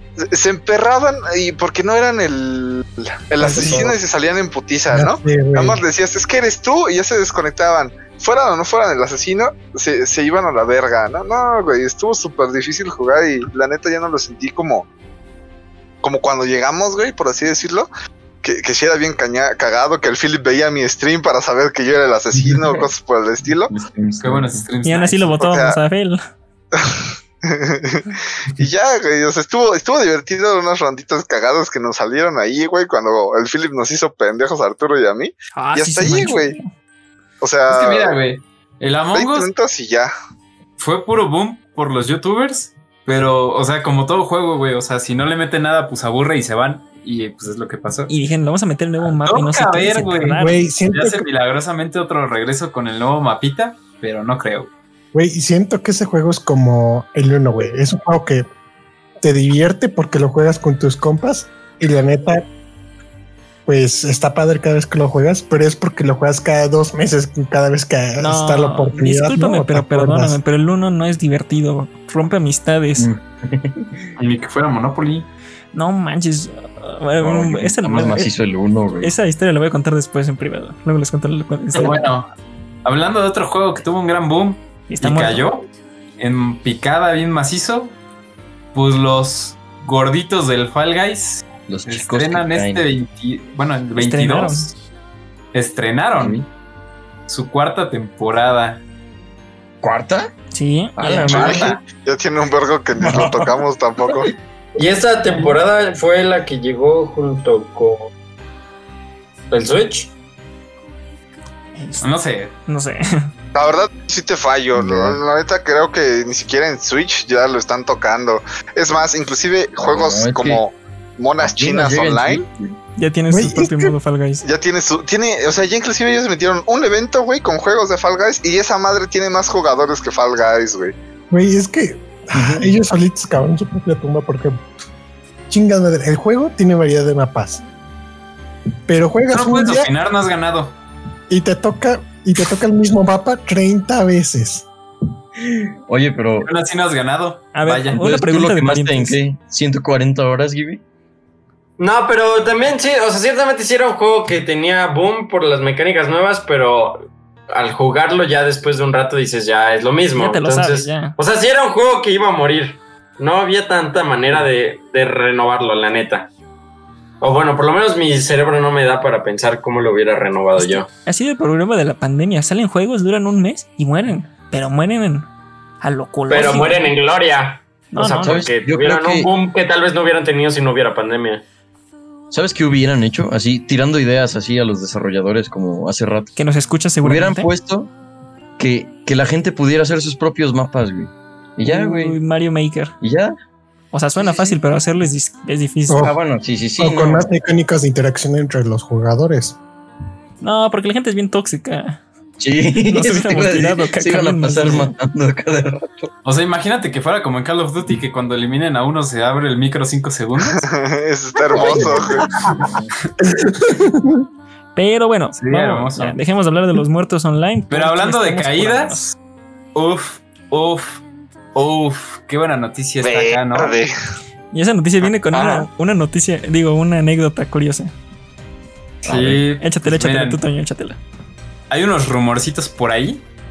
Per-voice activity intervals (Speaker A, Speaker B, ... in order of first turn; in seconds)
Speaker A: 0.2-14.9, 16.0-17.9, 18.4-23.7, 25.4-25.8, 26.8-36.5, 37.4-38.2, 39.1-40.1, 101.3-104.3, 113.5-122.4, 124.4-130.9, 210.4-212.3, 223.0-223.9
Speaker B: 3.4-3.9, 24.8-26.2, 35.5-36.7, 48.1-50.6, 68.2-73.1, 75.7-78.3, 79.0-82.0, 84.9-85.5, 93.9-94.7, 100.5-101.6, 111.8-112.0, 112.7-113.3, 123.0-124.4, 147.5-149.2, 160.2-161.1, 170.6-175.3, 175.8-176.9, 177.9-178.4, 186.3-187.5, 191.7-192.9, 193.9-196.1, 200.4-202.0, 202.9-204.9, 214.7-219.2, 224.5-227.9, 229.6-231.0
Speaker C: 3.5-3.9, 101.4-101.8, 104.8-108.1, 109.5-110.1, 151.8-166.3, 167.2-170.9, 176.3-181.4
Speaker D: 4.9-5.8, 50.4-51.2, 55.1-58.5, 59.2-62.4, 63.6-70.4, 123.3-124.0, 131.3-134.6, 135.5-137.6, 138.9-139.9, 141.3-144.7, 195.9-196.1, 196.8-199.6, 213.2-214.2
Speaker E: 22.3-22.9, 23.7-24.6, 73.0-74.0, 77.2-79.1, 91.7-92.8, 96.2-96.5, 99.8-100.3, 101.0-101.7, 103.0-103.5, 114.7-115.2, 119.8-120.6, 121.4-122.8, 132.3-132.7, 145.4-146.5, 147.9-150.8, 178.2-179.3, 182.3-186.4, 187.0-187.9, 188.6-192.2, 193.0-193.3, 194.2-194.6, 195.9-197.3, 202.4-206.1, 211.5-212.9, 229.0-229.4
Speaker F: 24.2-25.3, 37.7-39.5, 40.8-48.1, 49.0-54.7, 74.2-75.3, 81.8-82.3, 82.8-85.6, 86.2-88.0, 88.7-94.7, 95.5-96.4, 97.3-98.8, 112.0-112.5, 139.3-140.7, 146.4-148.0, 206.2-210.7, 215.3-216.2, 217.7-219.0, 219.7-221.0, 221.5-223.8, 229.0-230.4, 231.7-233.2